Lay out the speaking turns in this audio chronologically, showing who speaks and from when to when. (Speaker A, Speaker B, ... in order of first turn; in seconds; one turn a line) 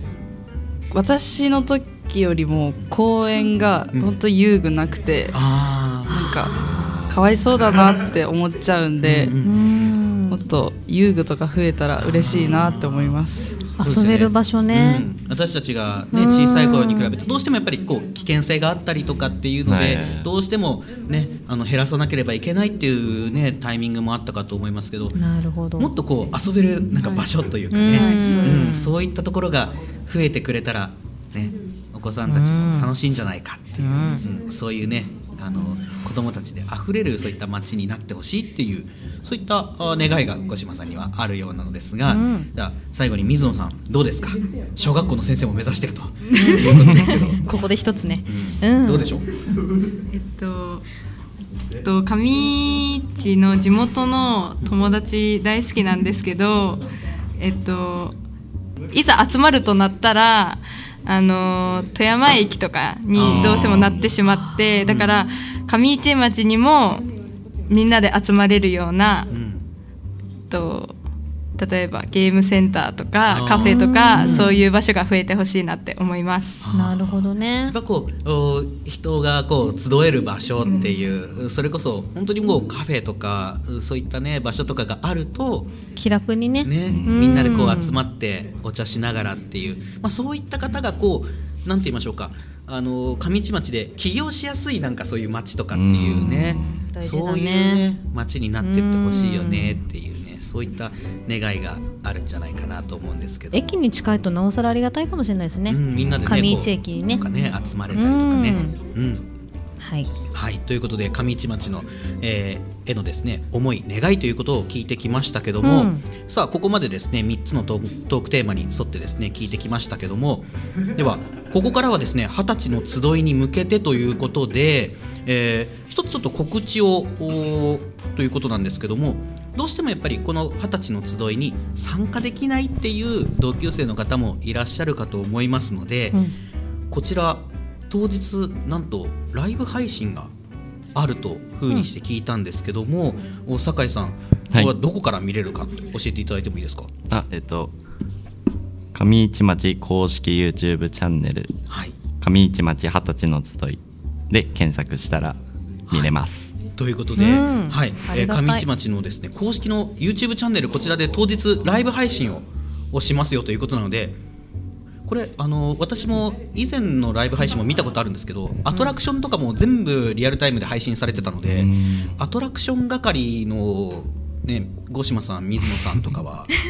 Speaker A: 0.9-5.5
Speaker B: 5.3-6.2
Speaker A: 6.1-9.4
Speaker C: 6.1-7.0
Speaker B: 9.0-9.7
Speaker C: 9.3-10.4
Speaker A: 10.3-13.6
Speaker B: 12.0-13.2
Speaker C: 13.8-15.1
Speaker B: 13.8-25.2
Speaker C: 16.1-17.1
Speaker D: 19.7-20.3
Speaker C: 25.2-25.9
Speaker B: 25.8-47.4
Speaker A: 27.0-27.3
Speaker C: 27.7-28.9
Speaker A: 27.9-28.9
Speaker C: 32.3-32.9
Speaker C: 33.8-34.2
Speaker C: 42.1-42.5
Speaker C: 46.3-49.1
Speaker B: 48.3-49.2
Speaker E: 50.1-50.9
Speaker E: 51.8-56.9
Speaker E: 57.4-58.2
Speaker E: 58.9-67.1
Speaker B: 63.1-63.7
Speaker D: 63.2-64.1
Speaker B: 64.8-65.1
Speaker E: 67.7-69.3
Speaker B: 69.3-69.7
Speaker E: 70.5-71.0
Speaker E: 71.6-76.7
Speaker B: 73.3-74.5
Speaker C: 73.6-74.5
Speaker B: 76.6-85.7
Speaker C: 76.7-77.8
Speaker C: 86.0-88.0
Speaker B: 86.6-103.7
Speaker D: 86.9-87.5
Speaker D: 95.7-96.8
Speaker C: 96.8-97.8
Speaker C: 98.6-99.8
Speaker C: 103.5-107.2
Speaker B: 105.7-109.3
Speaker D: 106.0-106.3
Speaker C: 107.9-108.8
Speaker C: 109.8-110.1
Speaker B: 110.3-136.2
Speaker C: 115.6-116.0
Speaker B: 136.9-140.3
Speaker B: 140.9-146.9
Speaker D: 147.1-147.7
Speaker D: 148.9-151.5
Speaker B: 151.7-151.9
Speaker D: 152.2-155.4
Speaker D: 155.9-156.5
Speaker B: 156.8-164.2
Speaker C: 157.2-158.7
Speaker B: 165.1-176.5
Speaker D: 171.5-172.2